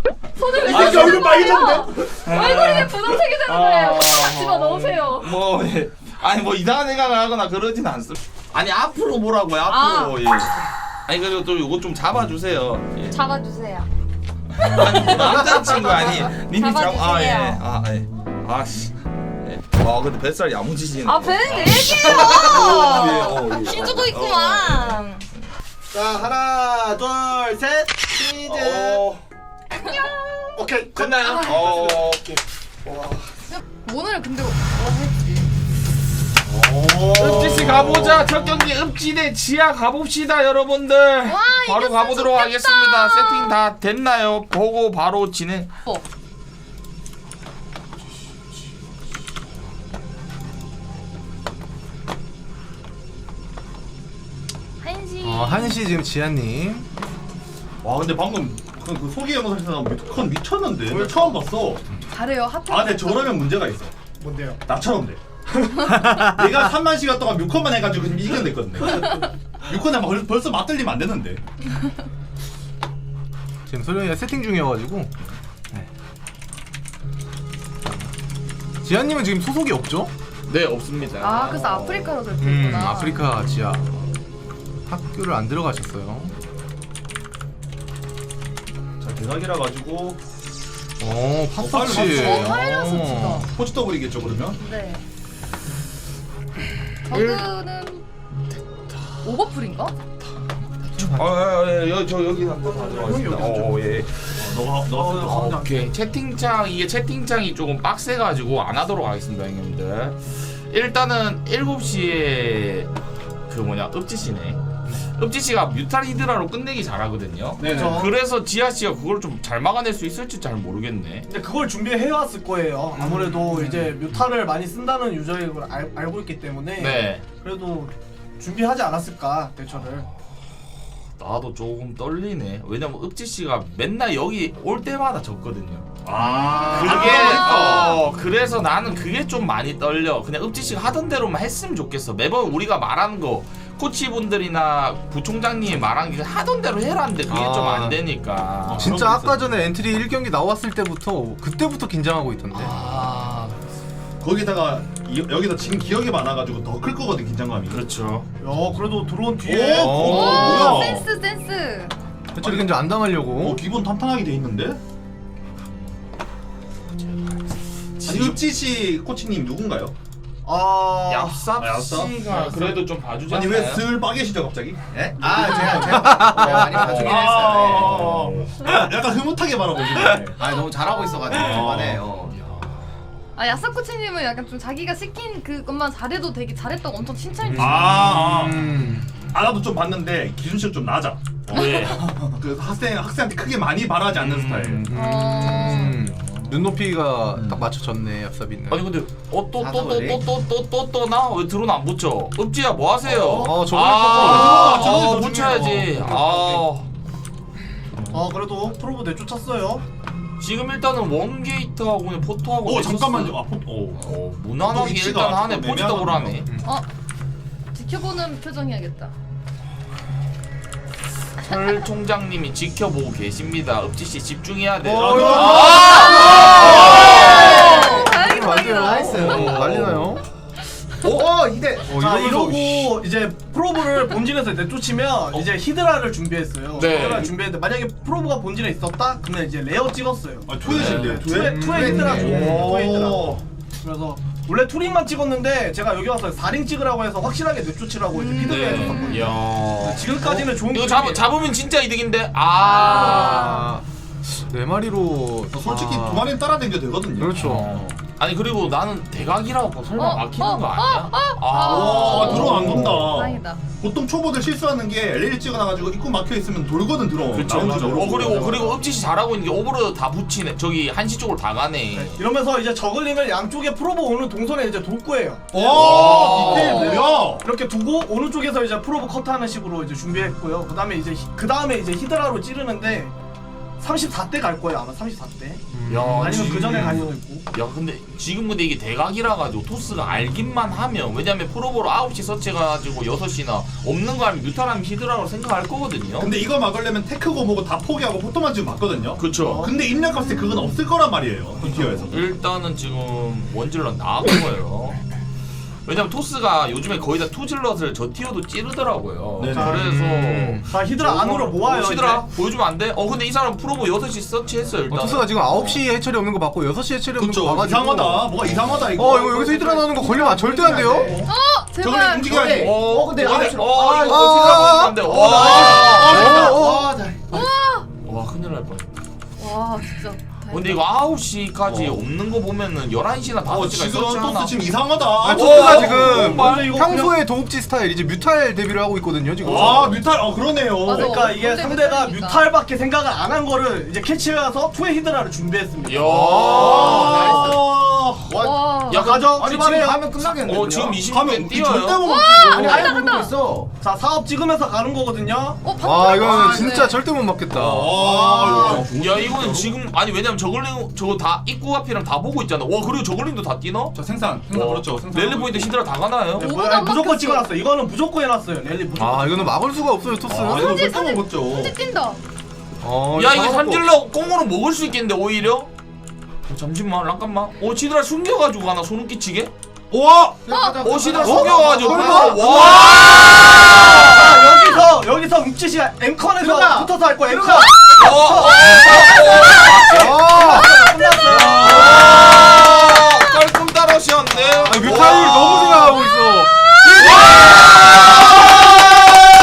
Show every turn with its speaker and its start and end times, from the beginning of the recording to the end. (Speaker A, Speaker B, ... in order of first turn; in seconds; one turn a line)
Speaker A: 0.3-5.3
Speaker B: 0.5-2.3
Speaker C: 0.7-1.4
Speaker C: 2.2-13.2
Speaker A: 9.7-10.2
Speaker A: 13.1-13.9
Speaker C: 14.5-25.0
Speaker A: 14.7-17.6
Speaker A: 21.1-25.2
Speaker B: 21.5-24.1
Speaker D: 25.9-29.0
Speaker E: 27.1-29.0
Speaker C: 28.4-29.2
Speaker A: 29.7-30.0
Speaker D: 30.6-31.1
Speaker E: 30.6-31.1
Speaker C: 30.9-33.2
Speaker A: 31.3-31.6
Speaker A: 33.5-35.5
Speaker B: 36.5-38.6
Speaker C: 37.1-45.7
Speaker A: 41.2-43.6
Speaker A: 54.8-55.9
Speaker F: 55.2-56.9
Speaker B: 57.8-61.9
Speaker E: 60.9-61.5
Speaker A: 62.1-63.6
Speaker B: 62.7-63.9
Speaker E: 64.2-64.6
Speaker B: 64.7-65.2
Speaker E: 65.7-66.3
Speaker B: 66.2-71.4
Speaker F: 73.7-75.1
Speaker F: 78.8-80.1
Speaker C: 80.5-82.2
Speaker A: 81.2-83.2
Speaker F: 82.4-83.9
Speaker F: 84.9-86.4
Speaker B: 89.0-90.2
Speaker F: 91.0-93.5
Speaker B: 91.6-92.7
Speaker A: 91.9-93.5
Speaker B: 93.4-94.6
Speaker A: 94.6-95.0
Speaker A: 97.1-98.0
Speaker C: 97.1-97.5
Speaker A: 99.2-99.9
Speaker F: 100.9-101.4
Speaker C: 101.0-104.6
Speaker E: 102.6-103.8
Speaker B: 104.4-105.5
Speaker E: 104.8-105.9
Speaker C: 105.2-112.9
Speaker C: 113.5-121.3
Speaker E: 117.6-118.2
Speaker E: 121.3-130.1
Speaker C: 123.0-124.0
Speaker C: 126.8-127.2
Speaker C: 131.2-135.9
Speaker B: 136.1-138.0
Speaker A: 136.2-138.0
Speaker C: 136.7-148.9
Speaker F: 147.3-148.0
Speaker B: 148.7-149.5
Speaker F: 148.7-152.8
Speaker C: 152.5-153.6
Speaker B: 154.2-157.8
Speaker C: 157.7-158.3
Speaker E: 158.4-160.3
Speaker B: 159.4-161.1
Speaker F: 159.7-160.8
Speaker A: 160.0-162.0
Speaker F: 162.4-163.6
Speaker B: 162.4-162.8
Speaker B: 163.4-164.8
Speaker C: 168.0-168.4
Speaker B: 168.0-169.9
Speaker E: 170.4-171.5
Speaker C: 171.1-173.9
Speaker B: 171.6-180.4
Speaker D: 174.9-178.3
Speaker C: 175.4-178.5
Speaker F: 176.0-176.7
Speaker D: 180.2-182.4
Speaker B: 181.3-182.0
Speaker A: 183.4-187.9
Speaker F: 187.4-189.1
Speaker B: 187.6-194.9
Speaker C: 191.5-192.0
Speaker C: 194.2-194.9
Speaker F: 194.6-199.0
Speaker A: 194.9-196.0
Speaker C: 195.4-196.6
Speaker C: 198.7-206.9
Speaker D: 199.6-200.3
Speaker E: 203.0-203.7
Speaker F: 203.3-205.8
Speaker B: 204.1-206.2
Speaker E: 204.4-205.0
Speaker E: 208.1-209.8
Speaker C: 210.4-213.4
Speaker B: 212.6-216.4
Speaker C: 213.9-216.5
Speaker A: 217.7-219.1
Speaker C: 221.4-227.8
Speaker F: 224.8-226.1
Speaker B: 224.9-227.4
Speaker E: 225.0-225.7
Speaker A: 225.8-229.6
Speaker D: 225.8-229.6
Speaker F: 227.5-230.2
Speaker C: 229.2-230.2
Speaker D: 231.0-231.9
Speaker F: 231.8-233.0
Speaker E: 231.9-251.3
Speaker C: 236.7-237.3
Speaker B: 237.0-237.2
Speaker B: 240.5-243.4
Speaker C: 240.6-241.2
Speaker F: 241.4-242.7
Speaker D: 241.7-242.5
Speaker C: 248.2-253.6
Speaker A: 248.7-249.3
Speaker A: 252.6-253.7
Speaker F: 252.8-256.4
Speaker B: 255.5-257.6
Speaker F: 257.1-257.8
Speaker C: 257.4-262.9
Speaker A: 260.0-263.6
Speaker B: 261.6-268.8
Speaker F: 262.4-263.0
Speaker C: 267.3-272.2
Speaker D: 267.5-268.8
Speaker E: 271.9-283.1
Speaker B: 275.5-277.5
Speaker C: 275.6-277.0
Speaker E: 283.8-287.5
Speaker F: 285.7-286.5
Speaker C: 285.9-296.3
Speaker B: 296.2-302.2
Speaker C: 299.2-299.7
Speaker E: 299.4-299.9
Speaker C: 301.6-305.0
Speaker C: 305.9-315.6
Speaker B: 309.4-309.7
Speaker E: 309.5-309.9
Speaker F: 309.6-310.7
Speaker E: 310.7-312.3
Speaker F: 314.9-318.3
Speaker B: 317.1-320.0
Speaker C: 318.5-318.9
Speaker F: 318.9-321.2
Speaker E: 319.1-319.9
Speaker D: 319.9-321.3
Speaker B: 321.0-321.3
Speaker A: 321.3-322.3
Speaker B: 321.8-323.6
Speaker D: 321.9-327.5
Speaker C: 322.4-326.3
Speaker F: 323.9-325.0
Speaker B: 325.0-326.6
Speaker F: 326.0-326.9
Speaker A: 327.3-327.9
Speaker C: 328.0-328.9
Speaker A: 329.4-330.8
Speaker C: 330.5-334.7
Speaker B: 331.7-332.0
Speaker B: 333.4-336.2
Speaker F: 335.2-340.1
Speaker C: 335.2-336.7
Speaker E: 335.5-337.2
Speaker B: 339.4-341.4
Speaker A: 340.8-342.5
Speaker E: 340.9-346.7
Speaker C: 345.8-347.5
Speaker F: 346.0-347.6
Speaker B: 346.6-348.4
Speaker D: 347.1-347.5
Speaker D: 348.3-351.1
Speaker A: 348.4-349.2
Speaker C: 348.9-349.9
Speaker E: 348.9-350.1
Speaker C: 350.4-352.1
Speaker B: 351.0-352.8
Speaker A: 352.0-353.3
Speaker D: 352.2-353.7
Speaker E: 352.6-353.0
Speaker E: 353.8-355.7
Speaker A: 355.6-357.0
Speaker F: 355.8-358.1
Speaker B: 357.5-359.7
Speaker E: 358.2-358.9
Speaker C: 358.4-364.0
Speaker B: 363.9-365.7
Speaker C: 364.5-366.5
Speaker E: 366.4-369.6
Speaker A: 366.4-367.5
Speaker F: 369.0-370.9
Speaker B: 370.3-371.8
Speaker A: 370.4-372.2
Speaker F: 372.8-373.9
Speaker C: 373.1-375.7
Speaker C: 376.4-379.5
Speaker B: 379.9-380.4
Speaker D: 380.4-382.0
Speaker A: 380.5-381.0
Speaker C: 380.8-384.6
Speaker F: 381.2-382.5
Speaker E: 381.5-383.0
Speaker B: 382.6-383.3
Speaker E: 383.7-392.1
Speaker D: 386.5-386.9
Speaker C: 387.8-390.2
Speaker F: 389.9-390.8
Speaker C: 391.2-395.9
Speaker B: 391.6-392.2
Speaker F: 394.6-397.2
Speaker B: 394.8-395.9
Speaker C: 397.0-398.9